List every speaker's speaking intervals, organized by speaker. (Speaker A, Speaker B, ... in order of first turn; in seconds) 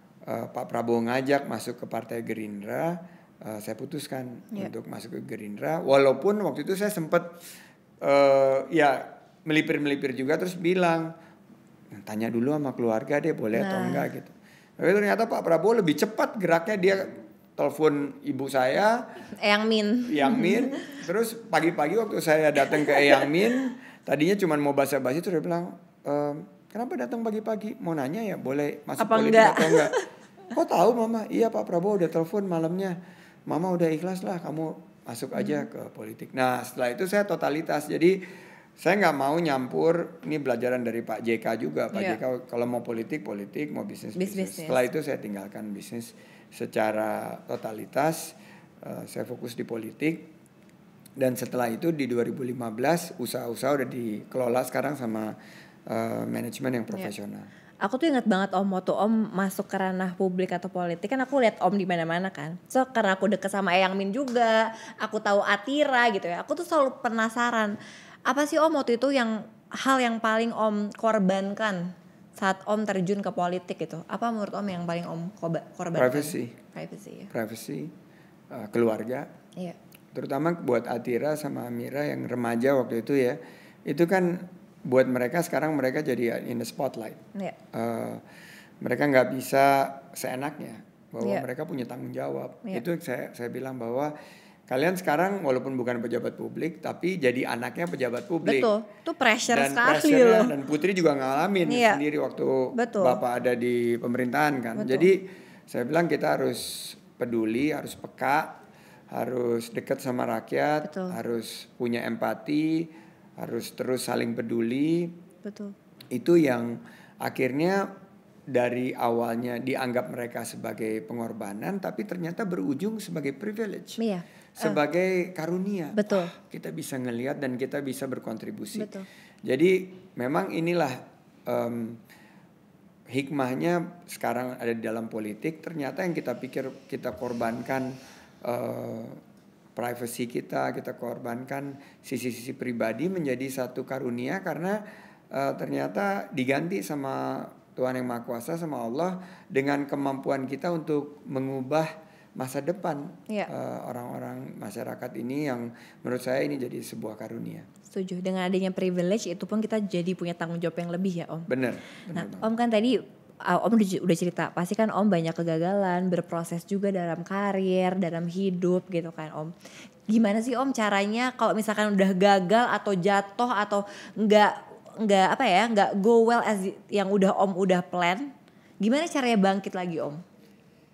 Speaker A: 0.2-7.4, 8.0-11.1, 11.9-19.1, 20.1-30.0, 30.5-50.3, 51.2-55.4, 55.9-57.5, 76.0-76.6, 77.3-77.9, 78.5-79.3, 80.1-88.2, 88.8-94.1, 94.7-98.7, 99.5-108.6, 109.1-115.2, 116.1-117.9, 118.5-124.0, 124.6-132.0, 133.1-139.2, 139.8-144.8, 145.3-157.7, 161.5-162.5
Speaker B: 13.6-14.1, 19.4-21.0, 22.6-23.3, 29.0-30.1, 35.4-35.6, 41.9-42.2, 44.2-44.8, 57.8-77.3, 98.4-100.5, 101.7-102.0, 102.8-103.2, 104.8-105.1, 110.8-111.2, 115.5-115.7, 124.0-124.8, 126.0-126.3, 128.8-129.1, 157.9-161.5, 162.1-169.5, 170.1-180.2